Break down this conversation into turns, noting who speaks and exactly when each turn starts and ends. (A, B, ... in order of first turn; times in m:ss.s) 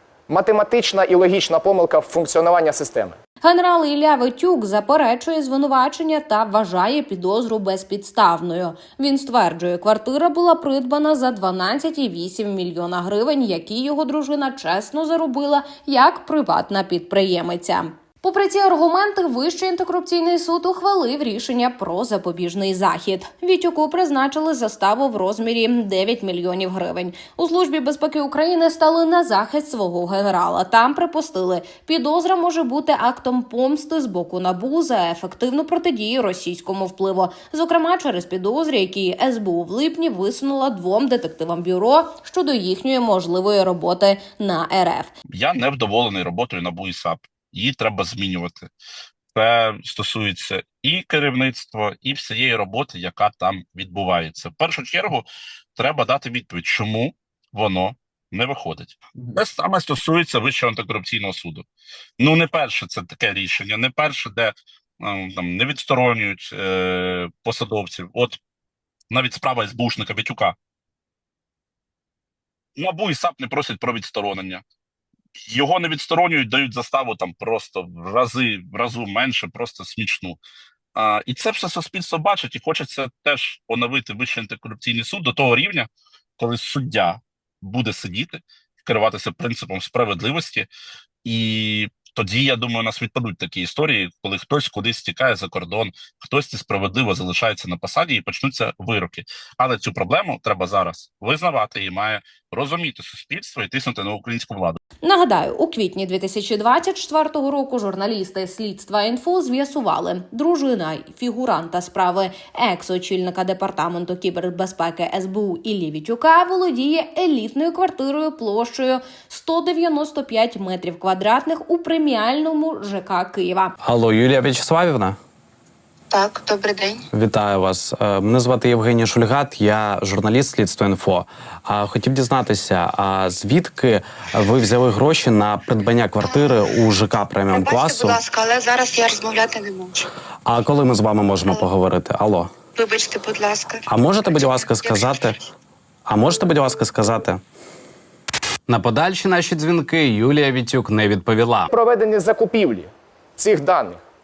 0:00.3-0:03.2 A
0:03.4-0:45.1 B
0:45.3-0:48.7 C
0:49.4-1:01.6 C
1:02.2-1:08.4 C
1:09.1-1:10.6 C
1:12.8-1:14.6 C
1:15.5-1:20.4 C
1:21.0-1:30.7 C
1:31.2-1:44.8 C
1:45.0-2:03.7 B
2:03.8-2:05.2 D
2:06.1-2:07.0 E
2:07.1-2:18.2 D
2:16.2-2:16.8 E
2:17.5-2:20.0 E
2:20.5-2:22.5 D
2:21.4-2:21.7 E
2:22.8-2:25.5 E
2:23.9-2:25.4 D
2:26.1-2:27.4 D
2:28.7-2:31.7 D
2:31.7-2:34.0 A